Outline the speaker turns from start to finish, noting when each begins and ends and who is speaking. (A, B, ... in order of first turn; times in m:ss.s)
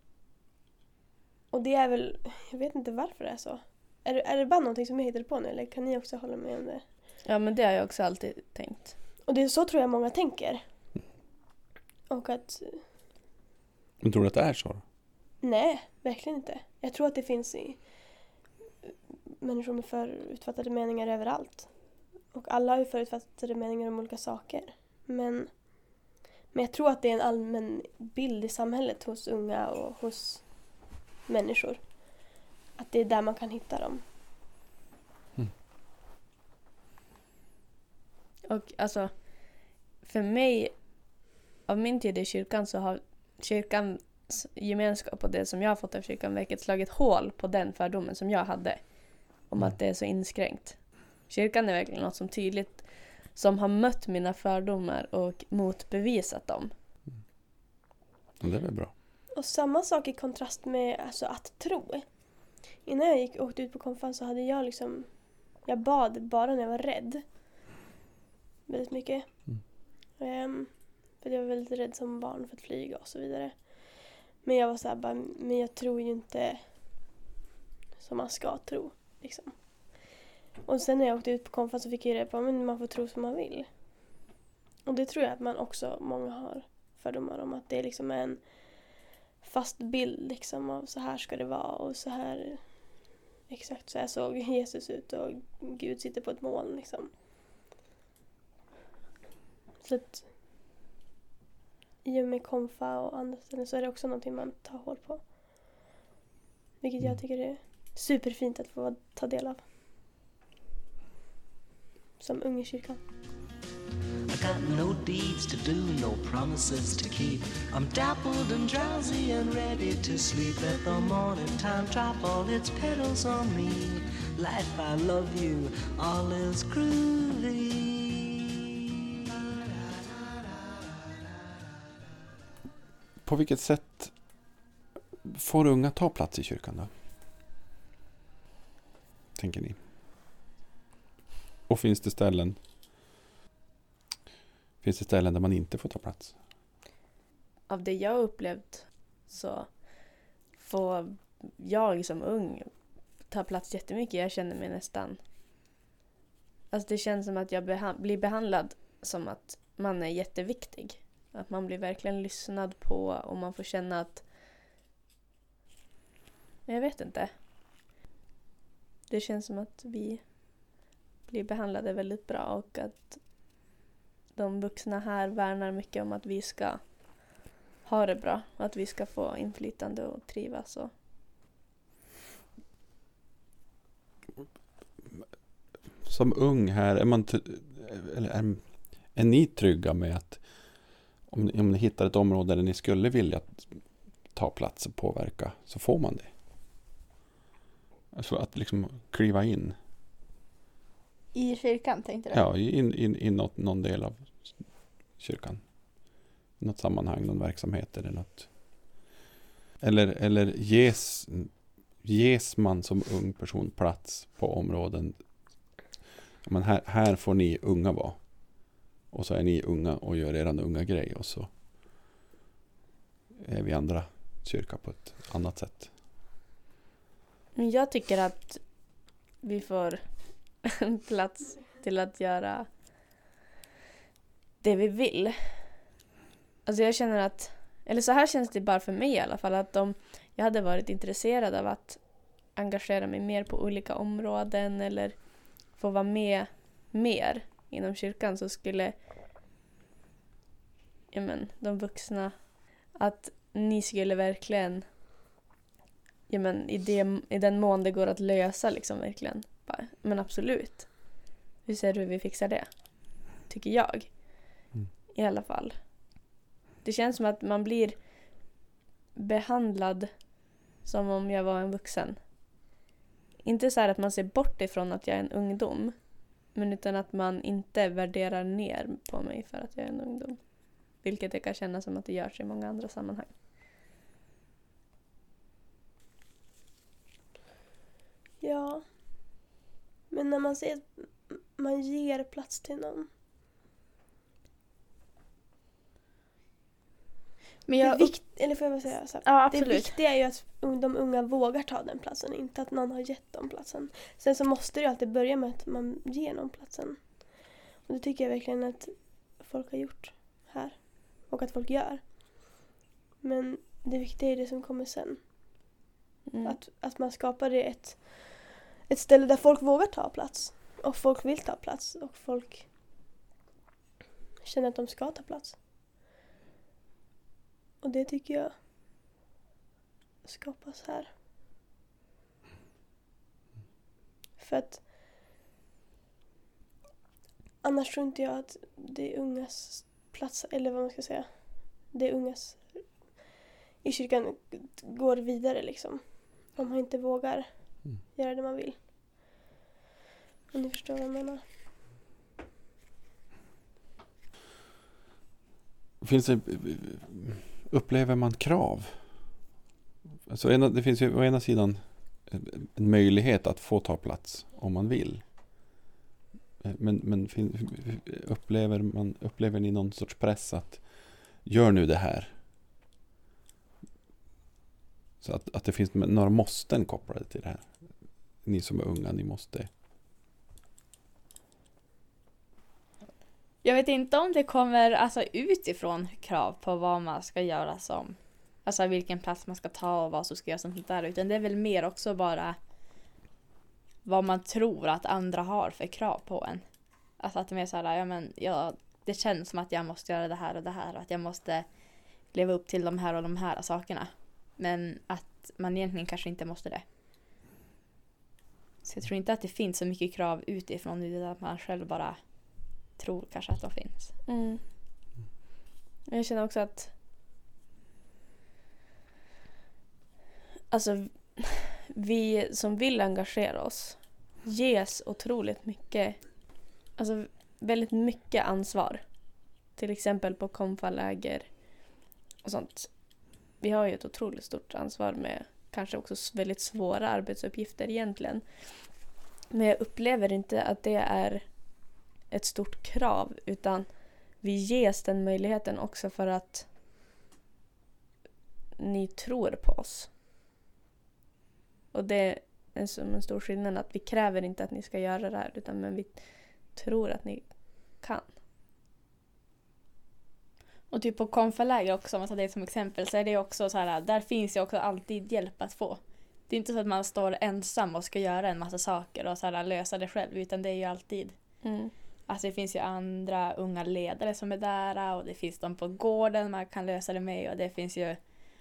0:01.5-0:06.8 A
0:07.2-0:08.9 B
0:09.3-0:10.6 A
0:12.1-0:12.8 A
0:14.0-0:14.8 C
0:15.4-0:18.1 A
0:19.4-0:34.0 A
0:38.4-0:40.8 B
0:41.6-0:56.7 B
0:58.4-0:58.9 C
0:59.3-1:07.2 A
1:08.7-1:17.0 A
1:18.0-1:24.0 A
1:24.8-1:37.1 A
1:39.8-1:40.3 A
1:42.0-1:45.3 A
1:46.8-1:49.6 A
1:52.2-1:53.0 A
1:54.3-2:08.2 D
2:13.2-2:14.4 C
2:15.2-2:16.9 C
2:19.4-2:19.8 C
2:21.7-2:22.6 C
2:24.8-2:26.4 C
2:27.7-2:32.7 B
2:33.3-2:35.2 B
2:36.7-2:44.2 B
2:46.6-2:47.3 B
2:49.1-2:50.2 B
2:51.3-2:53.2 B
2:54.3-2:56.8 B
2:57.8-3:00.9 B
3:06.0-3:16.3 C
3:18.1-3:19.8 C
3:21.3-3:22.4 E
3:22.3-3:29.0 C
3:29.8-3:35.2 C
3:36.4-3:42.0 C
3:43.4-3:46.0 C
3:47.5-3:48.6 B
3:49.4-3:50.1 B
3:50.6-3:52.7 B
3:54.6-3:55.6 B
3:56.6-4:02.0 B
4:02.5-4:08.9 B
4:11.1-4:12.4 B
4:13.0-4:14.8 B
4:16.3-4:24.6 B
4:25.1-4:25.8 B
4:26.8-4:28.0 B
4:29.1-4:30.1 B
4:30.8-4:32.2 B
4:33.4-4:40.4 B
4:40.9-4:43.3 B
4:48.4-4:48.8 A
4:50.1-4:53.1 A
4:57.7-4:58.2 E
4:57.8-5:12.6 A
4:59.0-4:59.9 E
5:13.2-5:15.2 A
5:16.3-5:16.6 B
5:16.4-5:22.7 A
5:24.4-5:25.6 A
5:27.8-5:28.5 A
5:30.2-5:31.1 A
5:34.4-5:34.8 A
5:37.6-5:43.2 A
5:43.8-5:48.8 A
5:50.5-5:51.4 A
5:56.0-5:59.0 C
6:00.3-6:05.2 C
6:06.6-6:12.4 C
6:15.2-6:19.7 C
6:23.6-6:32.6 E
6:34.0-6:36.6 E
6:37.2-6:41.7 E
6:42.3-6:46.8 E
6:48.8-6:52.2 E
6:53.0-6:54.1 E
6:54.3-6:54.6 B
6:56.1-6:56.9 B
7:00.7-7:06.2 B
7:06.9-7:09.0 B
7:09.8-7:11.5 B
7:12.4-7:12.9 B
7:13.6-7:18.4 B
7:19.5-7:21.4 B
7:22.3-7:23.9 B
7:24.4-7:26.7 B
7:28.8-7:30.1 B
7:31.9-7:36.2 B
7:36.7-7:38.3 B
7:40.9-7:51.4 E
7:51.6-7:51.9 B
7:52.3-7:58.2 E